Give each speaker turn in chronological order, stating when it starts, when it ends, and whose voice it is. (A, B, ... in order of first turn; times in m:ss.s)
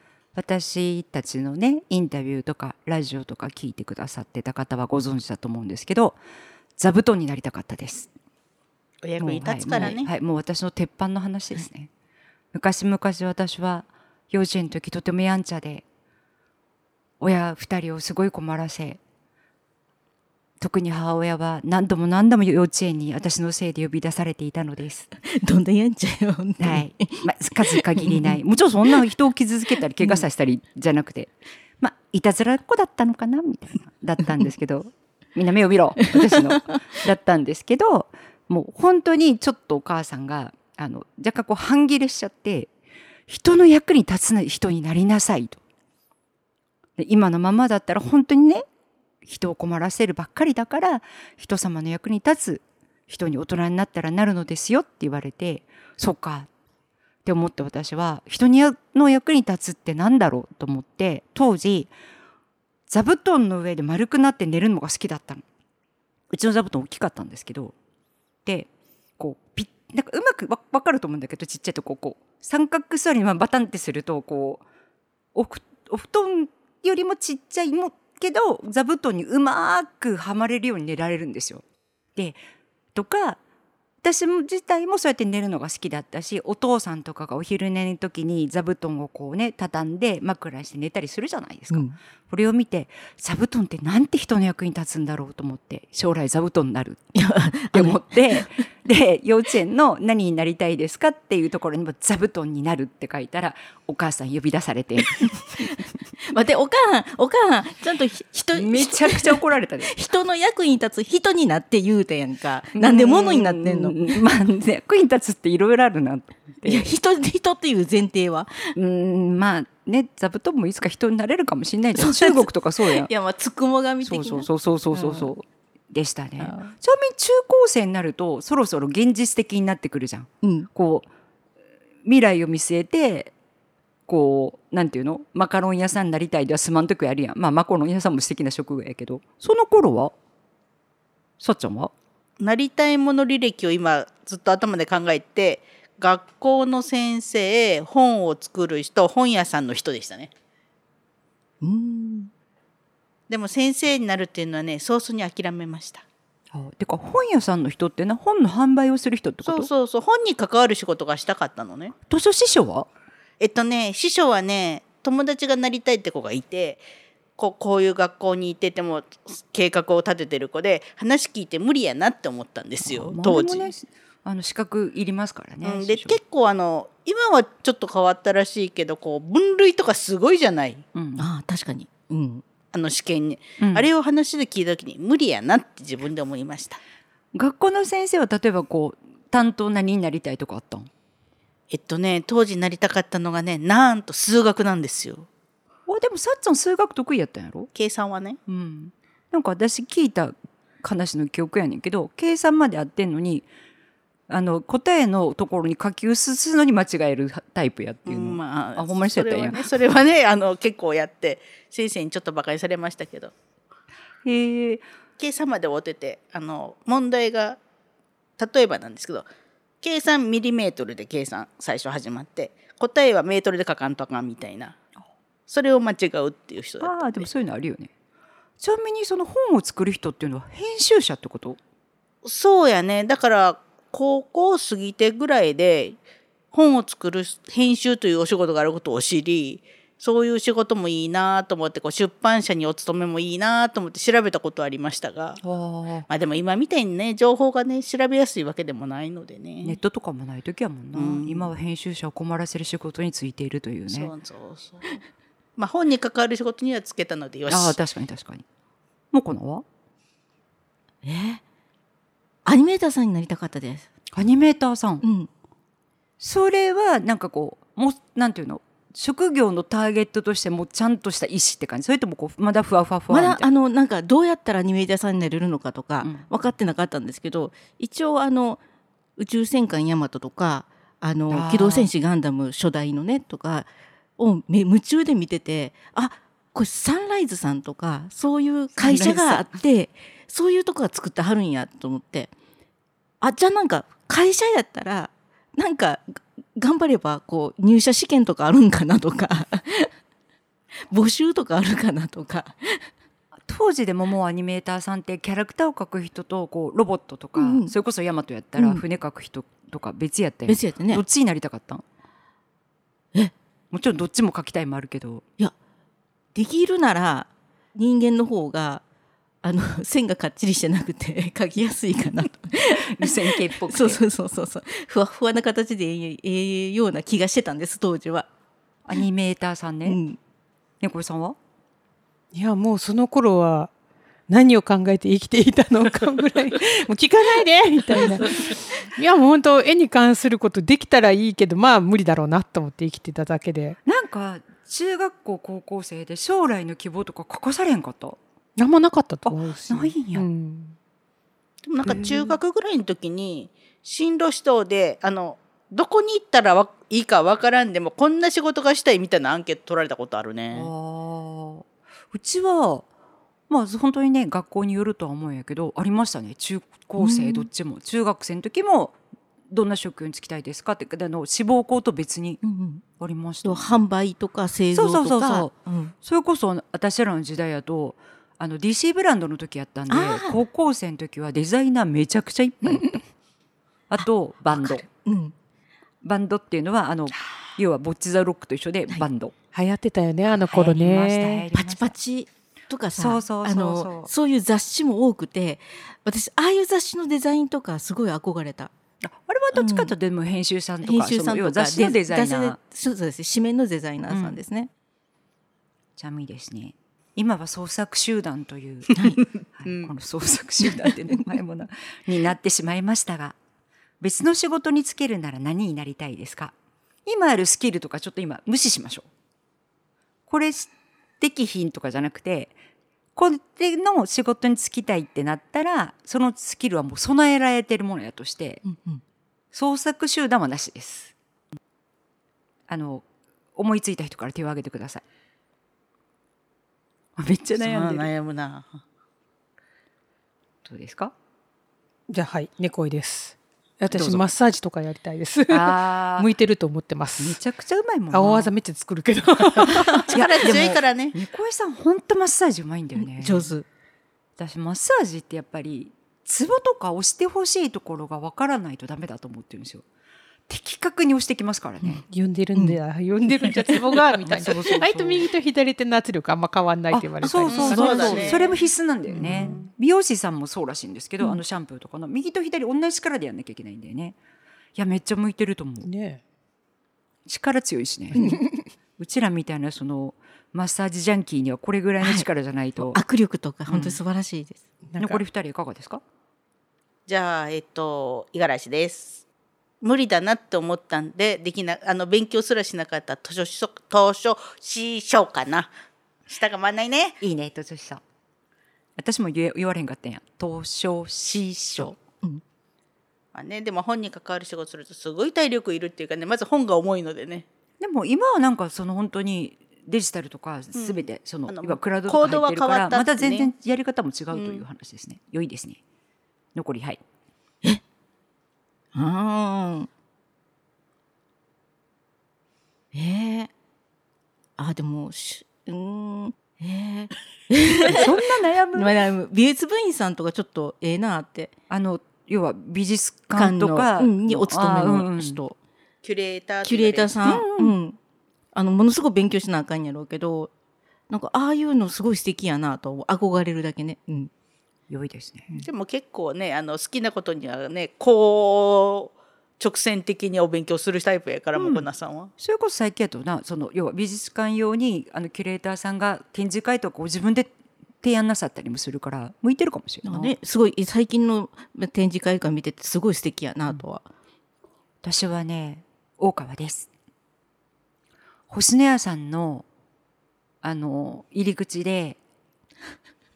0:00.3-0:06.2 A
0:06.8-0:08.1 A
0:09.0-0:10.1 B
0:09.2-0:11.9 A
0:12.5-0:15.8 A
0:17.2-0:19.0 A
0:20.6-0:25.1 A
0:25.2-0:28.4 C
0:26.6-0:42.7 A
0:30.0-0:30.2 C
0:36.2-0:37.0 C
0:43.3-0:45.6 A
0:47.0-0:48.6 A
0:49.2-0:56.5 A
0:57.2-1:01.9 A
1:02.9-1:05.4 A
1:06.3-1:07.7 A
1:08.4-1:14.6 A
1:15.3-1:21.6 A
1:22.9-1:23.4 A
1:24.0-1:37.1 A
1:31.7-1:32.0 C
1:37.1-1:38.6 C
1:37.7-1:45.6 A
1:45.2-1:54.2 C
1:48.5-1:50.0 A
1:52.7-1:56.9 A
1:56.6-1:58.8 C
1:58.7-2:03.1 A
2:01.9-2:05.3 C
2:04.0-2:11.1 A
2:06.4-2:06.7 C
2:10.4-2:10.7 C
2:12.0-2:13.3 A
2:14.1-2:20.1 A
2:21.4-2:21.9 A
2:22.4-2:30.3 B
2:31.6-2:32.3 C
2:33.3-2:36.0 B
2:36.5-2:39.7 A
2:39.4-2:41.9 B
2:42.1-2:42.9 A
2:43.4-2:46.8 B
2:47.4-2:53.7 B
2:52.8-2:56.2 A
2:55.6-3:00.8 B
3:00.9-3:01.3 A
3:01.2-3:02.4 C
3:02.7-3:06.8 B
3:03.6-3:03.9 A
3:07.3-3:10.9 A
3:11.7-3:15.3 B
3:15.9-3:17.7 A
3:17.7-3:18.4 B
3:18.5-3:23.5 A
3:24.3-3:29.7 A
3:28.1-3:33.3 B
3:34.2-3:34.8 A
3:35.2-3:37.6 B
3:38.4-3:39.3 B
3:39.8-3:44.8 B
3:45.5-3:47.3 B
3:46.8-3:47.9 A
3:48.6-3:51.6 A
3:52.2-3:56.0 B
3:56.5-4:05.4 B
4:05.4-4:06.1 A
4:06.1-4:09.8 B
4:09.6-4:14.1 A
4:10.9-4:11.5 B
4:13.9-4:15.0 B
4:15.6-4:17.8 B
4:17.5-4:18.4 A
4:19.1-4:19.6 A
4:21.0-4:21.4 C
4:22.4-4:23.9 C
4:24.1-4:25.0 A
4:25.0-4:25.3 C
4:26.2-4:33.5 A
4:33.1-4:38.6 C
4:39.2-4:52.3 C
4:41.3-4:41.9 A
4:48.8-4:49.5 A
4:53.2-4:59.9 C
5:00.9-5:02.9 C
5:03.5-5:11.8 A
5:07.4-5:07.7 C
5:08.6-5:08.8 C
5:10.5-5:11.0 C
5:13.7-5:15.2 A
5:16.3-5:18.8 C
5:19.4-5:28.3 C
5:22.8-5:24.0 A
5:28.8-5:30.0 A
5:29.8-5:30.2 C
5:30.8-5:31.4 A
5:32.3-5:33.7 D
5:34.3-5:43.8 D
5:43.8-5:48.2 A
5:48.6-5:50.8 D
5:49.2-5:50.2 A
5:51.6-6:00.7 B
5:51.8-5:52.3 A
6:00.5-6:02.8 A
6:03.5-6:09.0 A
6:07.0-6:07.5 C
6:09.5-6:12.4 A
6:12.4-6:12.8 C
6:13.0-6:13.8 A
6:13.4-6:15.9 C
6:14.7-6:23.0 A
6:19.9-6:20.4 C
6:23.9-6:24.8 A
6:24.5-6:25.3 C
6:26.0-6:29.3 A
6:29.5-6:31.5 D
6:30.3-6:31.9 A
6:31.5-6:38.7 C
6:33.0-6:34.1 A
6:39.0-6:42.6 A
6:39.5-6:39.9 C
6:40.8-6:44.7 C
6:44.1-6:44.4 A
6:46.0-6:53.4 A
6:48.9-6:49.2 C
6:50.7-6:51.2 C
6:54.0-6:56.5 A
6:57.0-6:59.1 A
7:00.3-7:02.6 A
7:03.2-7:08.6 A
7:08.6-7:09.0 C
7:09.5-7:11.1 A
7:12.7-7:15.0 A
7:17.2-7:18.1 A
7:17.6-7:18.8 B
7:20.6-7:21.1 A
7:22.1-7:27.4 D
7:23.9-7:24.3 A
7:25.5-7:26.3 A
7:27.2-7:28.5 A
7:28.1-7:30.2 D
7:30.0-7:31.1 B
7:30.0-7:33.5 A
7:33.0-7:33.7 C
7:34.4-7:39.8 A
7:40.5-7:42.0 A
7:42.1-7:48.4 D
7:44.2-7:45.3 A
7:46.9-7:54.2 A
7:47.4-7:48.5 B
7:49.1-7:49.5 C
7:49.2-7:49.6 D
7:54.7-7:55.9 A
7:55.8-7:56.2 D
7:57.2-7:58.4 A
7:59.0-8:03.0 A
8:02.0-8:02.3 C
8:02.8-8:04.6 C
8:03.7-8:04.0 A
8:04.9-8:05.2 D
8:05.0-8:06.0 A
8:07.1-8:09.2 B
8:09.8-8:15.7 B
8:16.3-8:17.2 B
8:17.2-8:18.0 A
8:19.0-8:21.9 A
8:21.8-8:22.4 C
8:23.3-8:27.4 B
8:27.8-8:35.8 A
8:30.7-8:33.5 B
8:34.3-8:34.6 B
8:36.5-8:37.0 A
8:38.9-8:39.9 C
8:42.9-8:43.5 C
8:44.6-8:48.1 C
8:47.9-8:49.0 A
8:48.7-8:51.5 C
8:51.7-8:55.4 A
8:53.3-8:55.6 C
8:56.0-8:57.3 B
8:56.6-8:58.0 C
8:57.2-8:57.8 A
8:58.5-9:00.5 C
9:01.1-9:04.3 C
9:04.9-9:05.5 A
9:05.6-9:12.3 B
9:11.5-9:11.8 A
9:12.4-9:20.3 A
9:20.0-9:24.0 C
9:25.0-9:26.9 A
9:28.5-9:29.6 A
9:30.6-9:32.2 A